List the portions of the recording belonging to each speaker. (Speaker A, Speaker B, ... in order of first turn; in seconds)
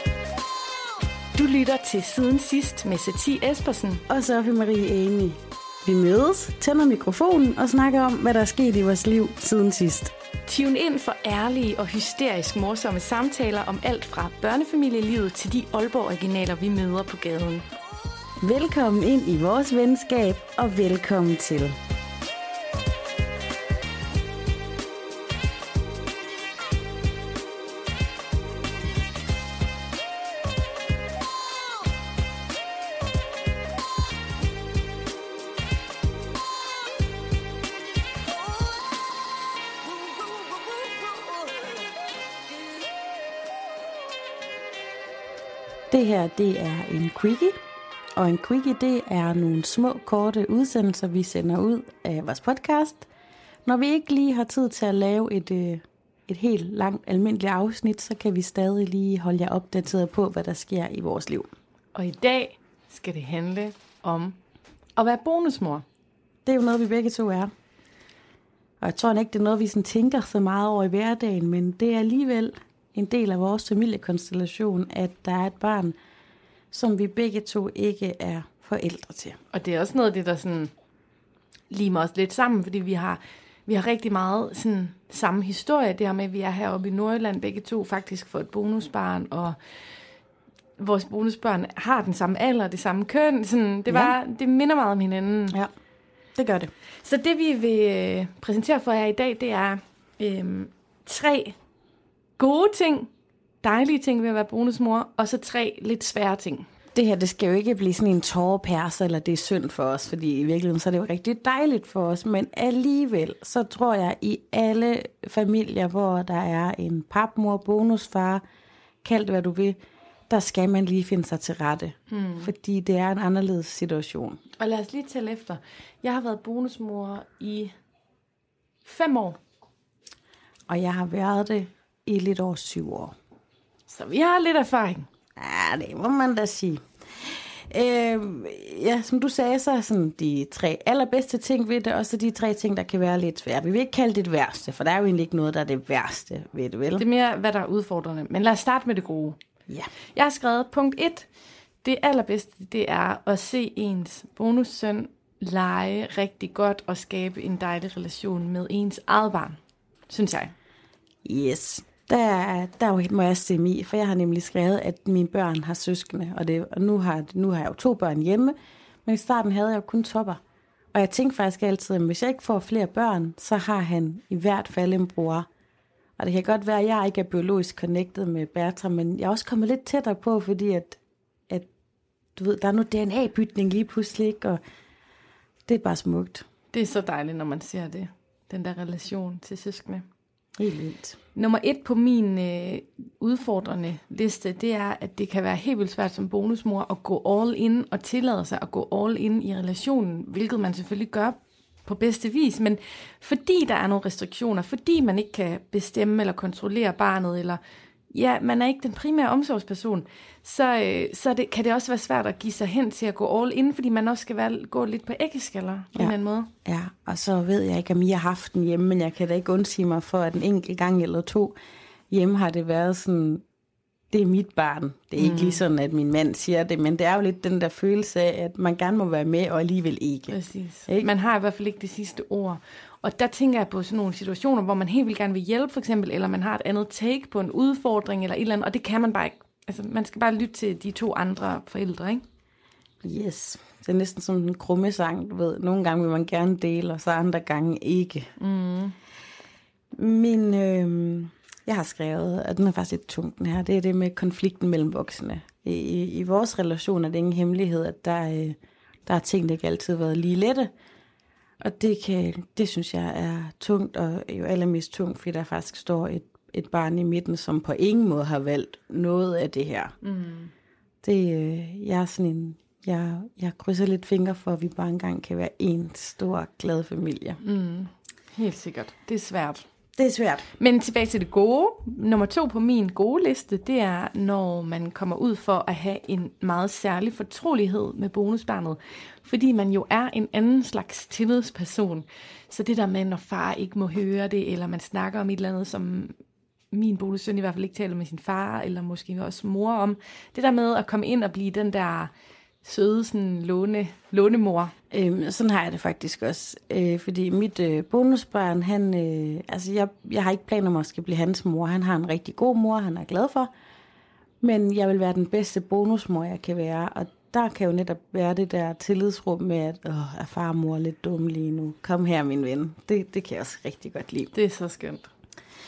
Speaker A: 1.3-4.0, 10.4-17.7, 62.0-64.4, 65.0-65.8, 79.5-80.7, 81.7-89.6, 90.8-95.6, 97.0-101.6, 102.4-103.1, 103.6-106.7, 122.1-122.5, 124.6-127.7, 128.8-129.4, 133.9-135.1, 146.9-149.4, 150.1-151.3, 151.8-159.6, 160.1-160.5, 186.7-190.0, 191.3-216.5, 225.2-225.6, 230.3-242.2, 248.4-249.0, 270.0-270.5, 277.4-279.6, 280.6-296.1, 296.7-302.1, 302.6-304.7, 324.3-325.1
Speaker B: 4.1-10.1, 18.4-21.8, 45.9-47.6, 48.2-53.1, 53.7-61.5, 66.5-67.5, 68.8-76.0, 76.7-79.4, 93.9-94.1, 96.4-96.7, 107.0-118.4, 119.0-119.8, 120.3-124.4, 130.7-133.1, 135.4-147.1, 161.2-170.4, 170.9-175.5, 176.2-181.7, 182.4-184.6, 185.7-186.4, 190.6-191.2, 216.6-221.6, 222.1-223.4, 224.1-231.1, 243.0-248.3, 249.9-260.7, 261.6-269.9, 271.0-277.4, 280.0-280.5, 304.9-313.5, 314.4-324.3